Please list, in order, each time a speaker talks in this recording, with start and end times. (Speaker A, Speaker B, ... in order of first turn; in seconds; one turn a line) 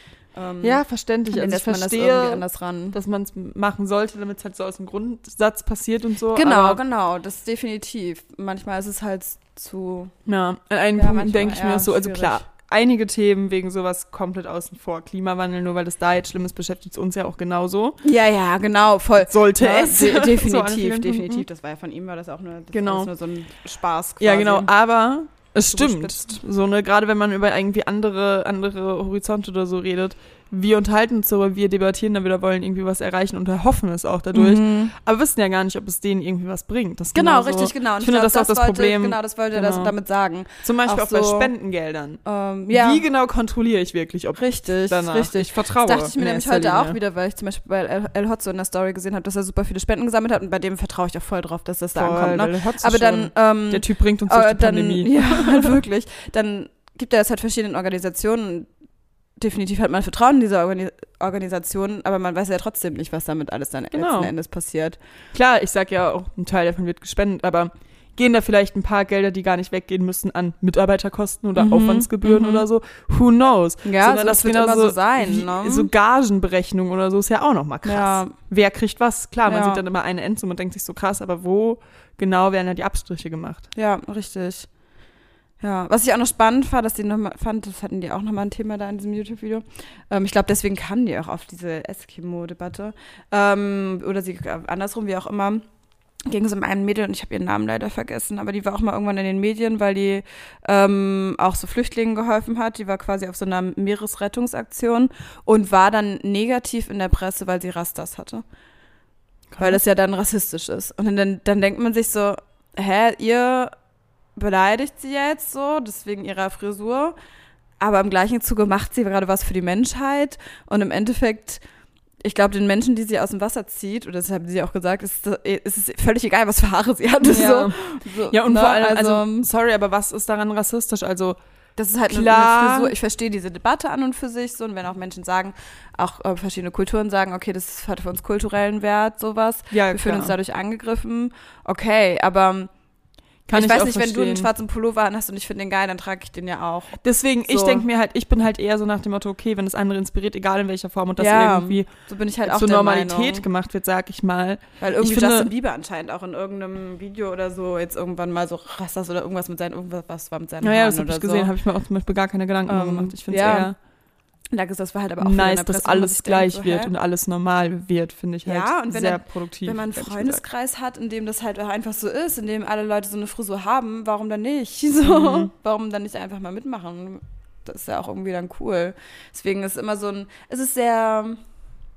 Speaker A: 0.3-3.0
Speaker B: 0.6-6.8
Speaker A: 6.3-10.1
Speaker B: 10.2-18.0
Speaker A: 10.9-12.4
Speaker A: 18.0-24.7
Speaker B: 19.2-21.4
Speaker B: 22.7-23.1
Speaker B: 24.2-39.9
Speaker A: 25.7-26.4
Speaker A: 34.3-34.9
Speaker A: 37.1-41.5
Speaker B: 40.6-47.0
Speaker A: 42.2-43.0
Speaker A: 44.3-58.7
Speaker B: 51.9-55.8
Speaker A: 59.4-65.0
Speaker B: 63.9-64.3
Speaker B: 65.3-83.7
Speaker A: 71.5-72.7
Speaker A: 73.8-75.9
Speaker A: 77.8-78.3
Speaker A: 79.5-79.8
Speaker A: 83.7-84.7
Speaker A: 85.6-95.7
Speaker A: 96.3-108.4
Speaker B: 109.5-109.8
Speaker A: 109.6-113.7
Speaker A: 114.3-117.2
Speaker A: 117.8-121.6
Speaker A: 122.2-129.5
Speaker B: 127.2-131.4
Speaker A: 131.8-142.7
Speaker B: 132.1-132.9
Speaker B: 139.7-140.3
Speaker B: 143.5-144.5
Speaker A: 143.5-147.8
Speaker B: 147.0-151.9
Speaker A: 151.2-153.4
Speaker B: 152.4-155.5
Speaker A: 154.8-161.5
Speaker B: 160.6-163.8
Speaker A: 162.7-163.7
Speaker A: 164.5-166.9
Speaker B: 165.2-170.4
Speaker A: 168.4-181.4
Speaker B: 175.0-175.5